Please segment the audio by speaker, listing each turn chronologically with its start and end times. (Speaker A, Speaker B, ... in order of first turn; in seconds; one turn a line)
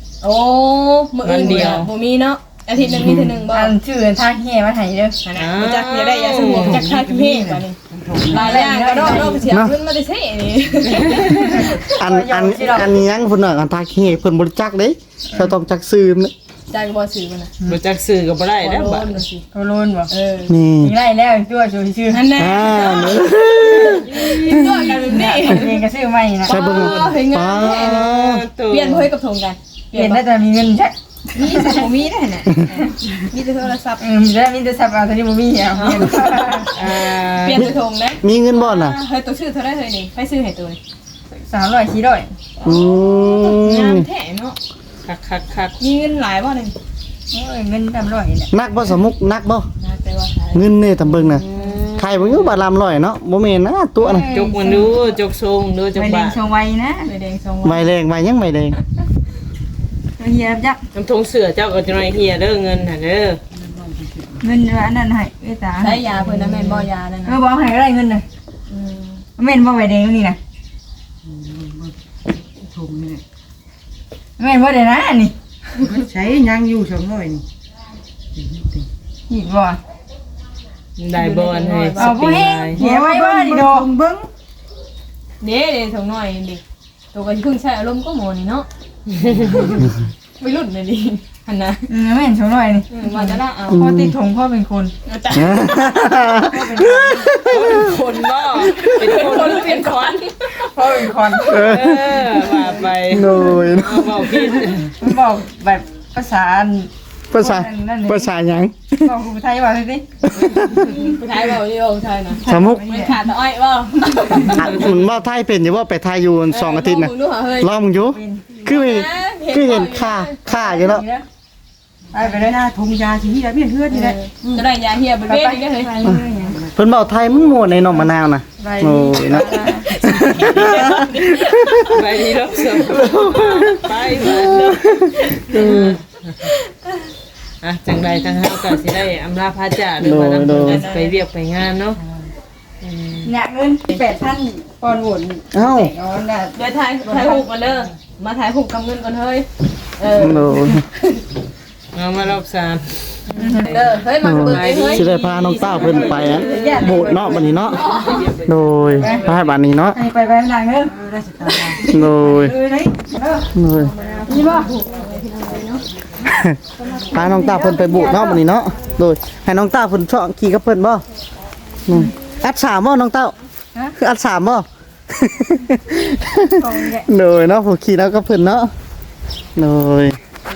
Speaker A: 0.2-3.7
Speaker B: 1.2-1.9
Speaker C: 2.8-3.4
Speaker D: 3.5-5.2
Speaker A: 5.2-11.9
Speaker B: 5.3-6.8
Speaker E: 6.4-8.8
Speaker D: 8.2-9.4
Speaker C: 9.5-9.8
Speaker D: 11.2-12.9
Speaker C: 11.9-16.3
Speaker A: 16.7-17.5
Speaker B: 17.6-19.2
Speaker A: 18.6-19.4
Speaker D: 19.5-20.1
Speaker A: 20.1-20.5
Speaker C: 20.5-20.9
Speaker D: 20.8-22.3
Speaker A: 22.1-25.8
Speaker C: 22.3-25.2
Speaker D: 25.1-26.6
Speaker A: 26.4-30.2
Speaker C: 26.5-28.4
Speaker B: 26.6-27.2
Speaker B: 27.8-29.1
Speaker D: 29.9-31.9
Speaker A: 31.3-34.0
Speaker D: 34.0-36.7
Speaker A: 35.7-40.8
Speaker B: 36.7-37.7
Speaker C: 37.5-39.0
Speaker D: 41.3-42.3
Speaker A: 42.6-44.6
Speaker C: 42.6-44.1
Speaker B: 45.0-45.8
Speaker A: 45.8-46.7
Speaker D: 47.3-48.5
Speaker C: 48.5-49.7
Speaker A: 49.8-50.6
Speaker C: 50.5-51.4
Speaker B: 51.2-52.6
Speaker C: 52.0-54.2
Speaker D: 54.0-55.2
Speaker B: 54.3-56.4
Speaker D: 55.9-57.1
Speaker A: 57.0-57.8
Speaker C: 57.6-58.8
Speaker D: 60.2-60.8
Speaker B: 60.9-63.4
Speaker E: 63.5-64.5
Speaker D: 64.4-68.2
Speaker A: 65.8-67.4
Speaker A: 68.7-69.2
Speaker D: 69.4-70.4
Speaker E: 71.2-71.9
Speaker E: 72.5-73.2
Speaker D: 74.4-75.3
Speaker E: 75.8-77.4
Speaker E: 78.3-78.9
Speaker D: 79.3-79.8
Speaker B: 81.0-82.8
Speaker A: 81.1-82.4
Speaker D: 82.0-83.9
Speaker E: 82.7-84.3
Speaker A: 85.4-86.6
Speaker A: 87.1-88.7
Speaker B: 89.1-89.8
Speaker A: 90.4-91.9
Speaker D: 91.9-94.9
Speaker A: 92.9-93.9
Speaker C: 93.7-94.1
Speaker A: 95.0-96.1
Speaker C: 95.3-99.1
Speaker D: 96.3-97.3
Speaker B: 97.5-100.1
Speaker A: 98.6-101.7
Speaker D: 100.7-101.8
Speaker C: 101.5-102.2
Speaker B: 101.7-104.9
Speaker A: 102.2-103.6
Speaker C: 103.1-104.2
Speaker D: 105.0-108.3
Speaker C: 107.3-109.1
Speaker D: 109.0-110.0
Speaker C: 110.2-110.9
Speaker A: 110.7-114.9
Speaker D: 112.4-113.2
Speaker C: 112.5-113.0
Speaker C: 114.5-121.0
Speaker A: 116.5-117.7
Speaker D: 118.1-118.4
Speaker A: 118.5-120.4
Speaker D: 120.5-121.2
Speaker D: 122.1-122.6
Speaker E: 122.1-124.7
Speaker A: 123.9-125.9
Speaker D: 125.2-126.6
Speaker E: 126.4-126.8
Speaker C: 126.7-131.9
Speaker D: 128.6-129.9
Speaker A: 129.5-132.1
Speaker B: 131.9-134.8
Speaker C: 132.8-136.0
Speaker A: 135.2-137.1
Speaker B: 135.5-136.3
Speaker B: 137.6-142.0
Speaker C: 140.0-140.8
Speaker A: 140.6-141.2
Speaker B: 142.8-143.3
Speaker D: 143.2-147.4
Speaker C: 145.5-145.9
Speaker A: 146.6-151.2
Speaker C: 150.1-150.8
Speaker B: 151.9-153.0
Speaker A: 153.3-155.1
Speaker D: 153.4-153.7
Speaker B: 153.7-159.5
Speaker C: 154.2-157.8
Speaker D: 156.2-157.5
Speaker A: 157.6-158.3
Speaker C: 158.4-160.0
Speaker D: 159.0-159.2
Speaker D: 159.9-160.9
Speaker E: 160.8-163.1
Speaker C: 161.8-162.5
Speaker D: 162.8-163.5
Speaker C: 163.5-163.9
Speaker A: 163.7-165.8
Speaker D: 164.2-164.7
Speaker C: 166.3-166.6
Speaker A: 166.8-167.3
Speaker D: 167.1-168.4
Speaker C: 167.1-171.0
Speaker C: 171.9-173.3
Speaker C: 174.0-178.7
Speaker D: 176.5-177.1
Speaker C: 179.6-180.2